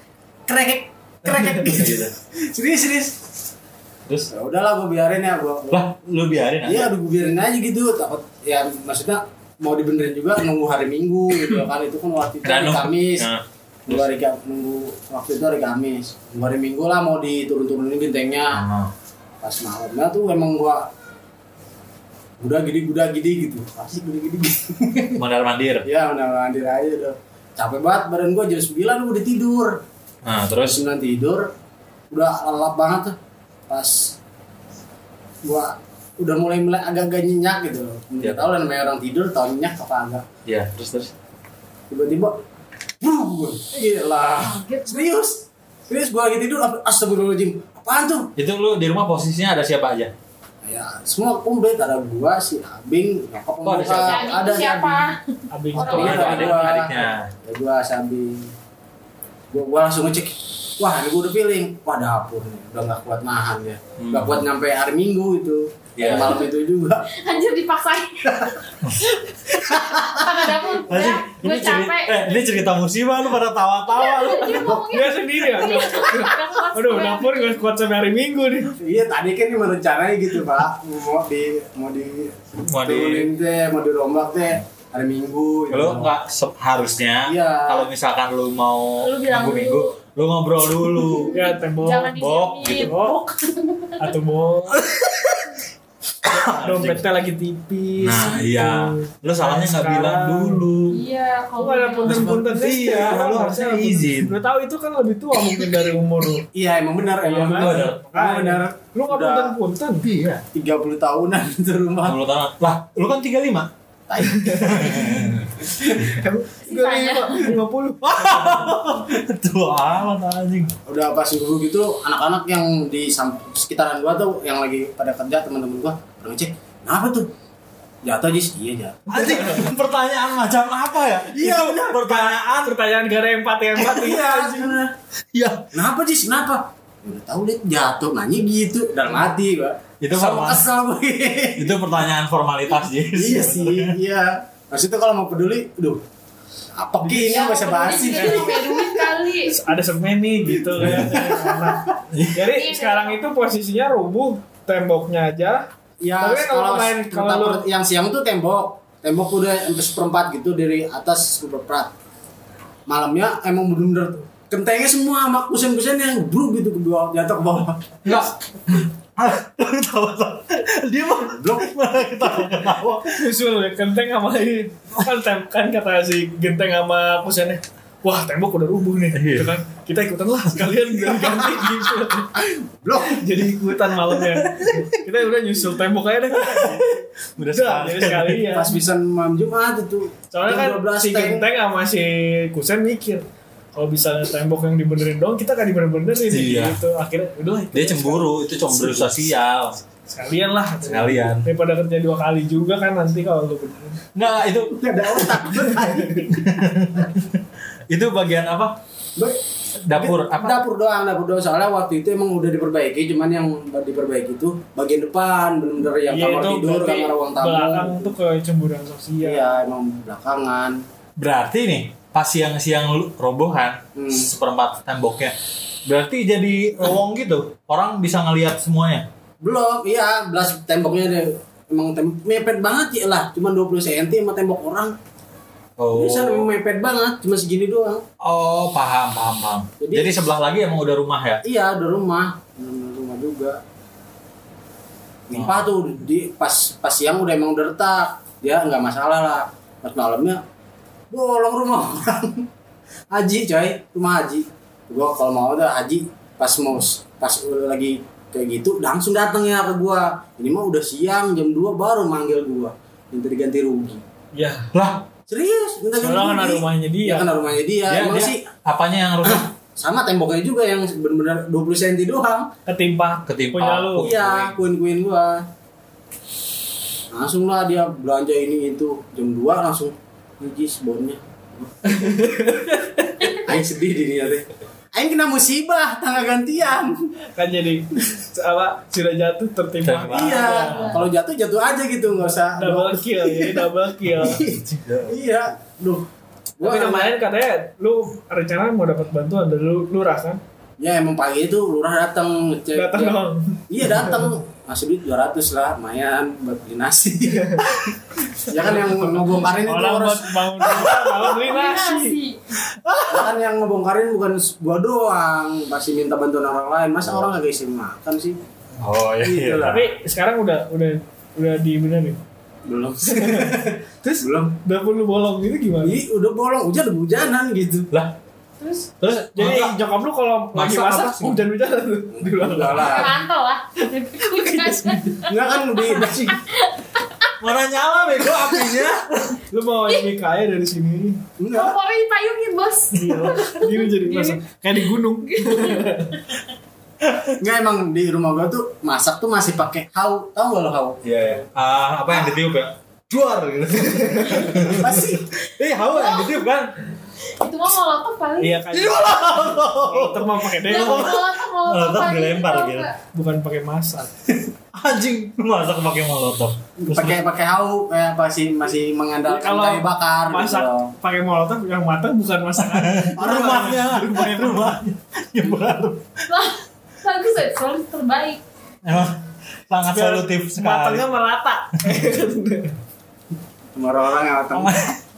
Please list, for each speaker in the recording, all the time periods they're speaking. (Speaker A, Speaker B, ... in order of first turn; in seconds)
Speaker A: 0.5-3.2, 4.3-5.8, 6.6-13.3, 13.9-18.6, 19.4-20.9, 22.4-25.2, 25.9-29.8, 30.6-31.5, 32.1-33.2, 33.7-34.2, 35.4-40.2, 41.9-42.4, 43.0-48.3, 50.6-55.0, 55.8-58.5, 59.5-67.1, 68.2-68.5, 69.6-70.3, 78.8-86.1, 87.2-87.9, 106.5-109.6, 110.5-112.2, 114.1-115.1, 120.9-127.3, 128.0-129.7, 131.3-132.3, 133.8-134.9, 135.7-141.8, 143.1-146.0, 146.7-149.0, 150.7-151.9, 156.0-161.9, 162.9-168.3, 171.3-171.7, 181.2-181.7, 182.3-183.3, 188.4-191.5, 204.6-206.6, 209.9-218.1, 219.2-220.8, 224.0-224.3, 229.4-234.9, 235.9-238.0, 239.8-240.2, 241.4-243.6, 245.3-250.4, 251.1-252.5, 253.1-264.0, 265.3-268.4, 269.2-272.5, 274.0-275.5, 277.1-282.3, 283.3-287.1, 290.1-296.1, 296.6-297.1, 300.8-307.9, 308.5-310.9, 313.1-318.4, 319.2-319.8, 322.7-324.5, 325.8-327.9, 332.1-333.2, 335.3-336.4, 341.4-341.8, 347.4-351.0, 354.5-355.3, 366.8-370.9, 373.2-373.8, 383.8-384.9
Speaker B: 1.7-2.1, 5.7-6.9, 12.4-14.1, 18.5-18.9, 25.2-25.9, 30.2-30.8, 38.2-38.5, 40.5-41.1, 48.4-50.1, 53.6-54.3, 55.9-57.3, 64.0-64.4, 66.0-66.4, 70.8-74.8, 82.7-83.3, 85.7-91.3, 92.2-93.1, 94.7-95.5, 96.2-97.1, 98.0-101.0, 102.0-104.4, 107.6-108.0, 110.0-110.4, 112.0-113.7, 114.4-115.5, 118.0-120.7, 129.1-132.8, 135.3-135.7, 140.0-140.7, 141.6-144.0, 150.8-151.3, 152.1-152.4, 168.1-173.3, 179.1-179.5, 186.5-188.5, 196.3-196.8, 197.7-199.8, 200.8-201.5, 204.2-204.8, 206.3-208.8, 209.8-210.7, 221.2-225.3, 225.9-229.1, 235.8-236.5, 238.2-241.4, 245.3-245.7, 264.7-265.1, 267.9-269.4, 273.3-274.6, 289.8-290.5, 294.4-295.2, 312.6-313.3, 318.8-319.9, 329.0-329.8, 330.5-331.4, 337.4-339.4, 347.0-347.3, 351.0-356.7, 358.7-362.9, 364.7-367.2, 372.6-376.1, 378.8-379.2, 379.7-381.1, 381.9-382.1, 384.5-384.9
Speaker C: 44.4-45.1, 53.8-55.2, 55.7-56.5, 67.1-68.4, 70.1-72.4, 73.9-77.4, 89.0-89.9, 91.0-94.0, 100.9-102.3, 116.7-117.5, 147.1-149.6, 152.5-153.2, 290.4-291.0, 311.3-312.6, 328.6-328.9, 332.8-337.3, 341.5-344.4, 345.3-346.2, 355.9-356.4, 357.3-358.6, 360.7-363.0, 376.3-378.4
Speaker D: 55.5-56.8, 74.8-78.8, 91.3-92.2, 92.7-93.2, 94.0-94.8, 96.6-100.7, 101.6-106.5, 107.2-110.1, 114.3-118.7, 132.1-134.8, 147.1-147.4, 148.1-148.4, 149.4-155.7, 156.2-157.6, 173.2-182.4, 183.0-188.8, 190.3-199.0, 200.1-204.0, 205.7-206.2, 216.1-219.6, 264.3-264.7, 266.0-267.3, 272.7-274.1, 281.9-283.5, 287.3-291.0, 292.6-294.4, 296.6-300.4, 302.7-304.3, 307.3-307.9, 308.6-312.2, 319.6-322.2, 323.1-326.0, 329.4-333.1, 334.3-335.3, 339.5-341.2, 342.9-346.2, 354.0-354.5, 358.4-361.1, 363.1-364.2, 369.3-374.8, 379.8-382.8